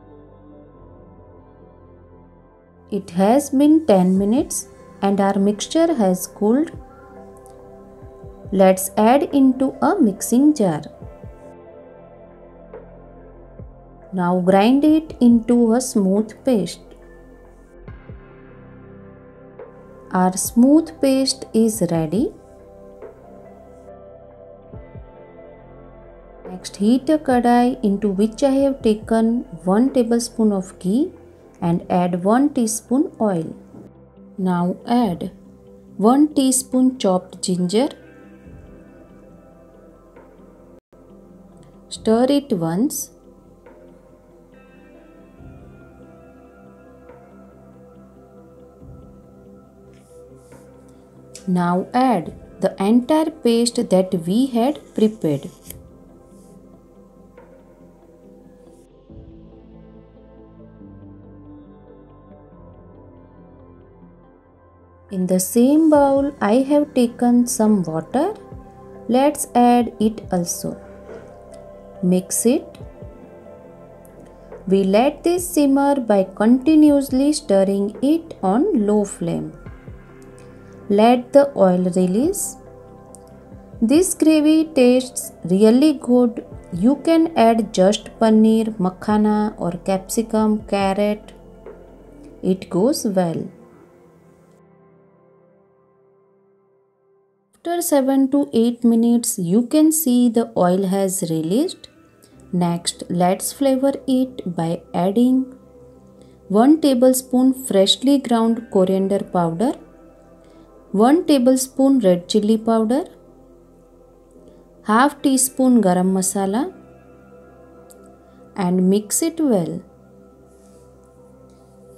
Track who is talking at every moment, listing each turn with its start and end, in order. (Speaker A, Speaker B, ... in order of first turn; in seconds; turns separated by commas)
Speaker A: 2.9-6.7, Speaker A: 8.5-10.9, Speaker A: 14.1-16.9, Speaker A: 20.1-22.3, Speaker A: 26.5-33.5, Speaker A: 34.4-35.3, Speaker A: 36.0-37.9, Speaker A: 41.9-43.1, Speaker A: 51.5-55.5, Speaker A: 65.1-68.4, Speaker A: 69.1-70.8, Speaker A: 72.0-72.8, Speaker A: 74.7-79.5, Speaker A: 80.9-82.6, Speaker A: 83.8-91.3, Speaker A: 92.4-93.5, Speaker A: 97.6-101.9, Speaker A: 102.5-105.5, Speaker A: 106.5-109.8, Speaker A: 110.9-113.1, Speaker A: 114.8-116.7, Speaker A: 118.6-119.8